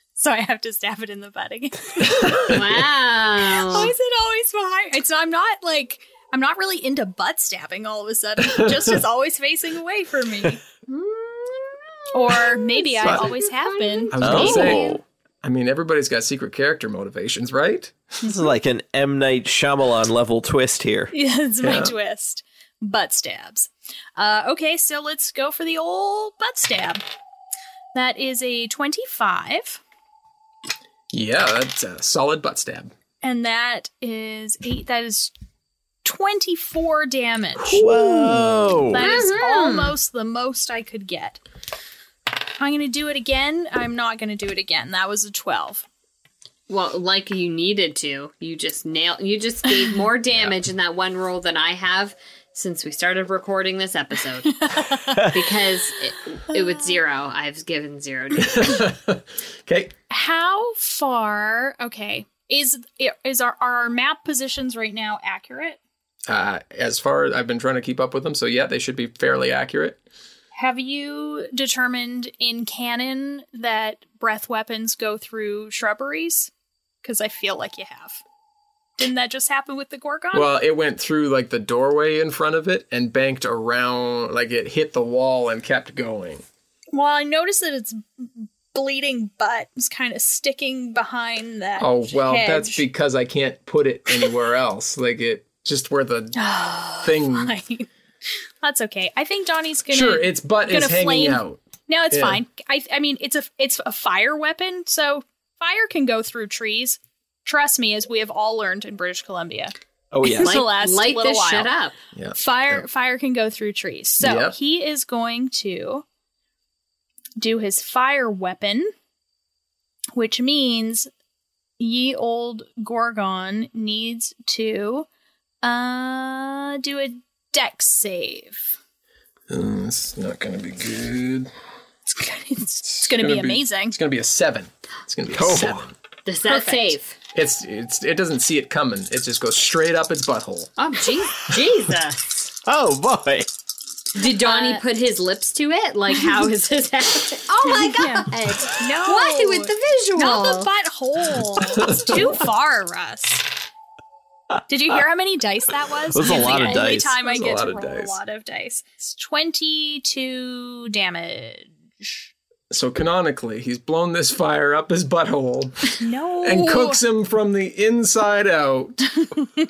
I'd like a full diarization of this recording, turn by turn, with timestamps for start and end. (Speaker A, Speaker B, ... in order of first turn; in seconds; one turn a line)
Speaker A: 0.2-2.5
Speaker B: 2.2-2.5
Speaker C: 2.5-3.9
Speaker A: 3.5-10.6
Speaker B: 8.4-8.9
Speaker C: 10.9-14.6
Speaker A: 12.1-14.9
Speaker B: 13.0-13.3
Speaker B: 14.1-18.0
Speaker D: 14.2-15.0
Speaker D: 18.2-21.1
Speaker A: 21.1-27.0
Speaker B: 21.6-21.9
Speaker A: 27.9-29.8
Speaker B: 31.1-32.9
Speaker A: 33.2-35.3
Speaker A: 36.0-37.8
Speaker B: 37.6-38.8
Speaker D: 37.7-39.0
Speaker A: 38.9-41.4
Speaker C: 39.0-39.9
Speaker A: 42.6-45.9
Speaker C: 46.7-54.6
Speaker A: 54.5-55.2
Speaker C: 55.2-58.8
Speaker B: 58.4-59.9
Speaker A: 60.1-65.8
Speaker B: 66.3-70.0
Speaker A: 70.5-76.5
Speaker A: 77.0-78.2
Speaker A: 79.0-80.5
Speaker B: 80.3-86.4
Speaker A: 86.9-92.8
Speaker B: 91.8-96.4
Speaker A: 96.3-97.9
Speaker B: 97.0-97.5
Speaker A: 98.6-111.7
Speaker B: 99.9-101.6
Speaker B: 102.1-102.4
Speaker D: 110.1-110.5
Speaker C: 110.4-111.9
Speaker B: 112.1-112.8
Speaker A: 112.3-116.0
Speaker B: 114.2-114.5
Speaker A: 117.4-118.9
Speaker A: 120.1-121.1
Speaker A: 121.8-125.1
Speaker A: 125.6-128.8
Speaker B: 129.5-131.5
Speaker A: 132.2-134.0
Speaker B: 133.0-135.9
Speaker D: 135.3-135.8
Speaker C: 136.2-137.2
Speaker A: 136.5-136.9
Speaker B: 137.3-140.7
Speaker C: 140.8-142.5
Speaker D: 142.6-143.5
Speaker C: 144.1-150.7
Speaker A: 144.3-144.8
Speaker A: 147.7-153.5
Speaker B: 151.7-152.3
Speaker A: 154.7-162.3
Speaker D: 156.1-157.1
Speaker B: 156.2-158.2
Speaker B: 162.7-169.1
Speaker A: 166.0-167.0